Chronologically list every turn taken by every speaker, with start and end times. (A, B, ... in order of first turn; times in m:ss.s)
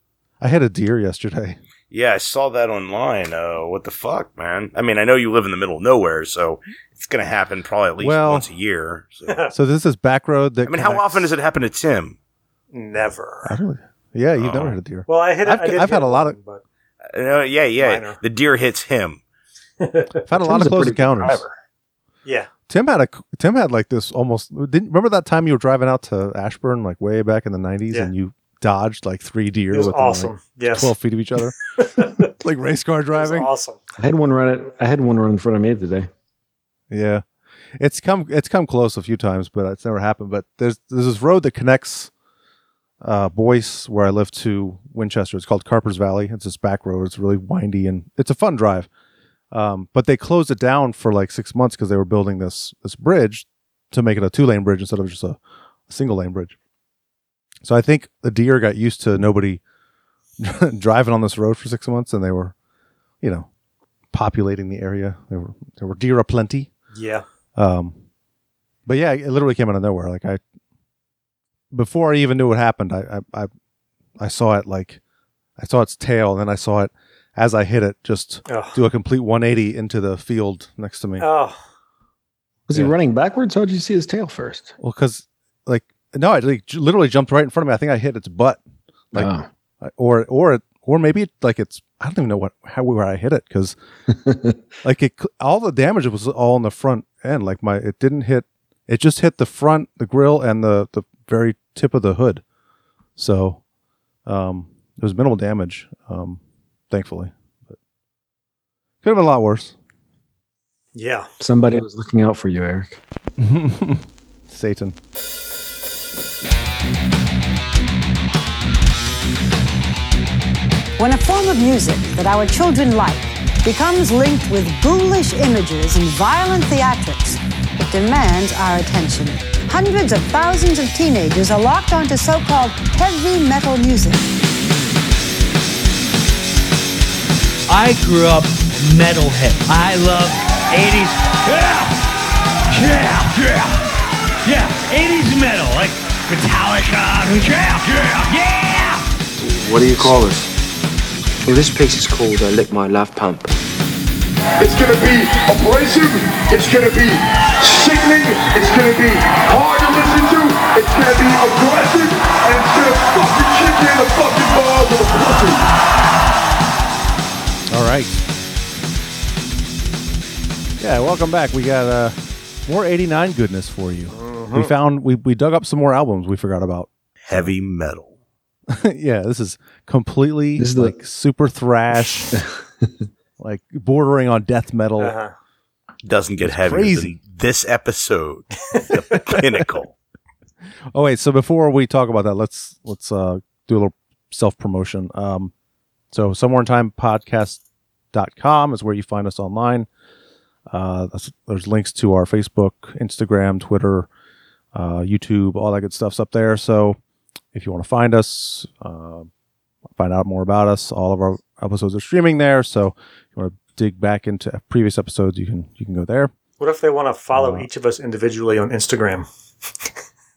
0:00.4-0:01.6 A
0:01.9-0:09.5 B
0:08.0-0:08.5 A
0:09.3-0:09.5 C
0:09.5-0:11.3 A
0:10.7-0:12.2 B
0:12.7-0:13.6 C
0:13.4-0:16.4 A
0:14.4-0:14.8 B
0:15.1-0:16.6 C
0:17.1-0:19.2 B
0:17.8-0:18.2 C
0:19.8-0:20.1 C
0:20.2-0:21.4 A
0:20.3-0:21.5 D
0:22.2-0:22.5 C
0:22.7-0:33.5 A
0:29.7-0:30.9 C
0:31.8-0:32.3 C
0:33.2-0:33.8 C
0:34.0-0:36.1 D
0:36.9-0:37.2 A
0:37.8-0:42.1 A
0:43.0-0:48.9 A
0:49.5-0:56.6 A
0:57.6-0:59.6 A
1:00.4-1:02.5 A
1:03.2-1:03.5 A
1:04.1-1:06.7 A
1:06.9-1:07.2 C
1:07.6-1:08.0 A
1:08.9-1:10.4 A
1:11.7-1:13.5 A
1:14.2-1:15.0 A
1:15.6-1:21.3 A
1:18.4-1:18.8 C
1:21.2-1:21.6 C
1:22.7-1:24.7 D
1:24.8-1:28.6 A
1:29.1-1:33.8 A
1:29.1-1:29.5 D
1:34.1-1:34.5 D
1:34.8-1:42.4 A
1:43.2-1:43.6 A
1:44.3-1:47.8 A
1:49.0-1:49.7 A
1:50.9-1:51.3 C
1:51.4-1:53.0 D
1:53.4-1:55.0 A
2:01.0-2:14.2 E
2:17.7-2:22.0 F
2:22.7-2:23.9 F
2:24.4-2:29.0 F
2:29.4-2:30.5 G
2:31.4-2:33.5 G
2:34.6-2:45.6 H
2:47.7-2:48.2 A
2:50.8-2:57.5 A
2:54.1-2:54.7 C
2:57.2-2:58.1 B
2:58.7-3:02.4 A
3:00.6-3:00.9 D
3:03.4-3:05.1 A
3:05.0-3:05.3 C
3:06.0-3:09.9 B
3:06.4-3:07.1 A
3:10.9-3:15.5 A
3:16.1-3:17.6 A
3:18.1-3:19.9 A
3:20.7-3:24.1 A
3:24.7-3:27.0 A
3:27.5-3:29.3 A
3:29.9-3:36.3 A
3:36.6-3:39.3 C
3:37.3-3:37.7 A